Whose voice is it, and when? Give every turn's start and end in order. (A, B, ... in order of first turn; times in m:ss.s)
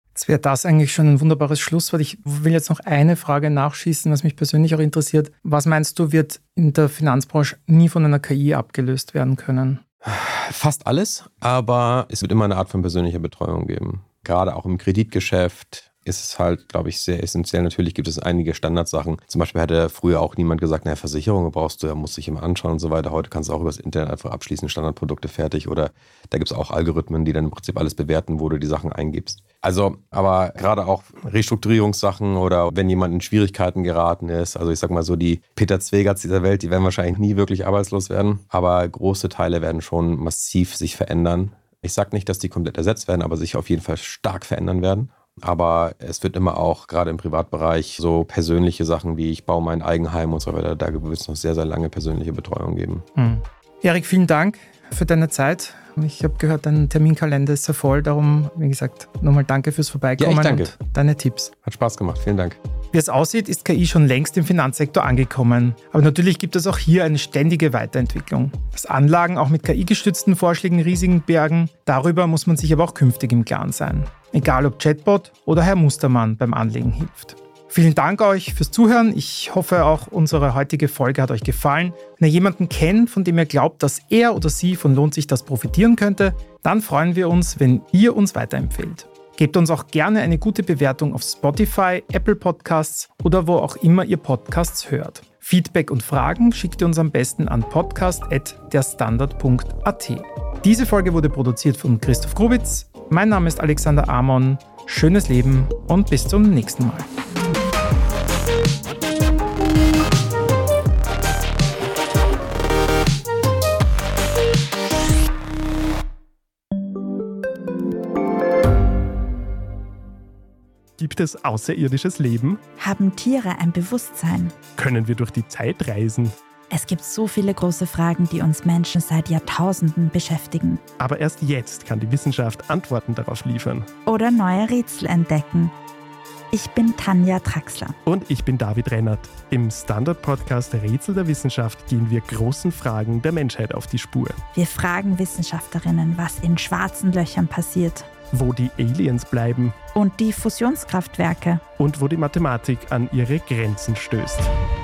0:00.1-0:09.8 A
0:10.0-0:53.0 B
0:53.2-1:01.5 A
1:00.2-1:00.7 B
1:01.6-1:02.6 B
1:02.9-1:47.1 A
2:01.0-2:02.6 C
2:02.8-2:04.5 D
2:04.8-2:06.3 C
2:06.7-2:10.8 D
2:11.0-2:13.9 C
2:14.0-2:15.7 D
2:16.5-2:18.0 D
2:18.0-2:24.4 C
2:24.5-2:28.1 D
2:28.3-2:29.8 C
2:29.9-2:31.6 D
2:31.8-2:34.5 C